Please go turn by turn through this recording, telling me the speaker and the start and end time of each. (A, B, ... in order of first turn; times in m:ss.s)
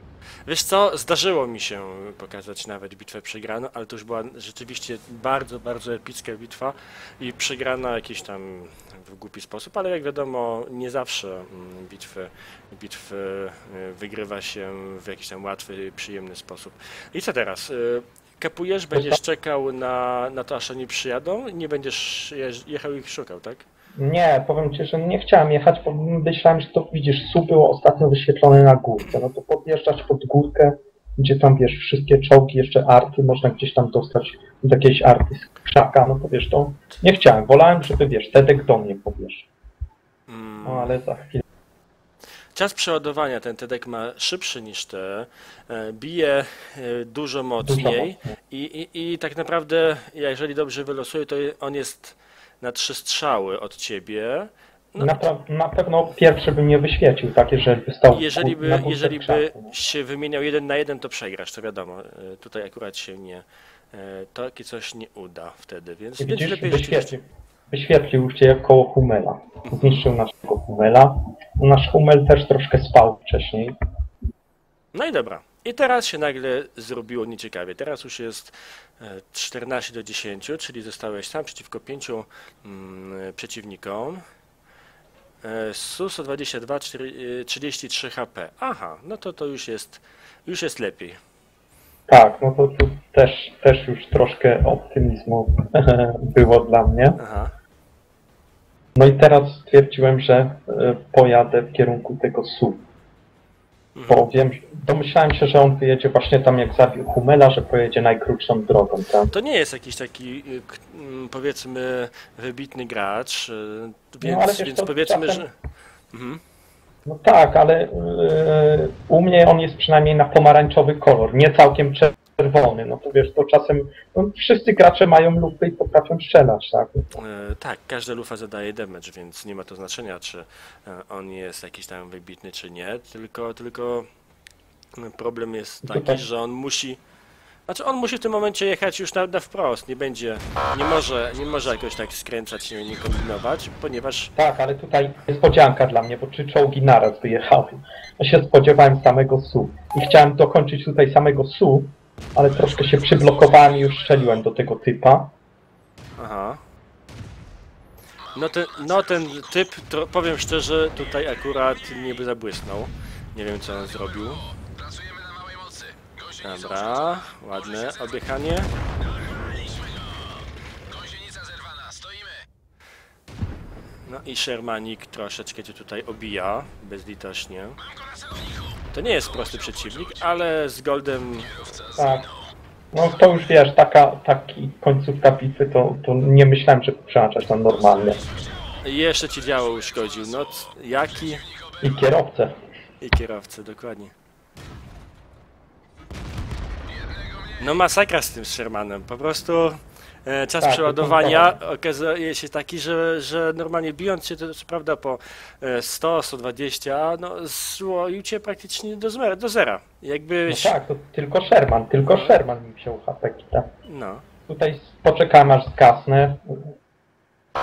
0:00.4-0:23.7 A
0:18.9-0:19.2 B
0:24.0-0:39.5 B
0:40.3-0:40.9 A
0:40.6-0:41.4 B
0:42.5-0:55.3 A
0:47.6-0:48.3 B
0:55.0-0:59.7 B
0:58.1-1:07.1 A
1:06.2-1:13.7 B
1:09.7-1:10.1 A
1:14.9-1:24.2 A
1:25.4-1:31.2 A
1:32.1-1:37.2 B
1:37.2-1:37.5 A
1:39.0-1:42.8 B
1:43.9-1:44.3 A
1:44.1-1:49.3 B
1:49.3-1:55.5 A
1:54.2-1:55.4 B
1:56.1-1:56.4 A
1:57.0-2:07.1 B
2:07.1-2:14.1 A
2:14.9-2:17.0 A
2:15.8-2:16.2 B
2:17.7-2:24.3 A
2:24.4-2:35.3 B
2:36.2-2:36.6 A
2:38.3-2:44.4 A
2:46.4-2:48.7 A
2:54.0-2:57.8 A
2:58.9-3:01.8 A
3:02.0-3:02.3 B
3:02.9-3:08.2 B
3:08.8-3:11.4 A
3:11.8-3:12.5 B
3:13.0-3:14.1 A
3:17.6-3:30.7 A
3:20.6-3:21.6 B
3:30.5-3:33.7 B
3:32.0-3:32.4 A
3:33.8-3:34.2 A
3:34.5-3:36.7 B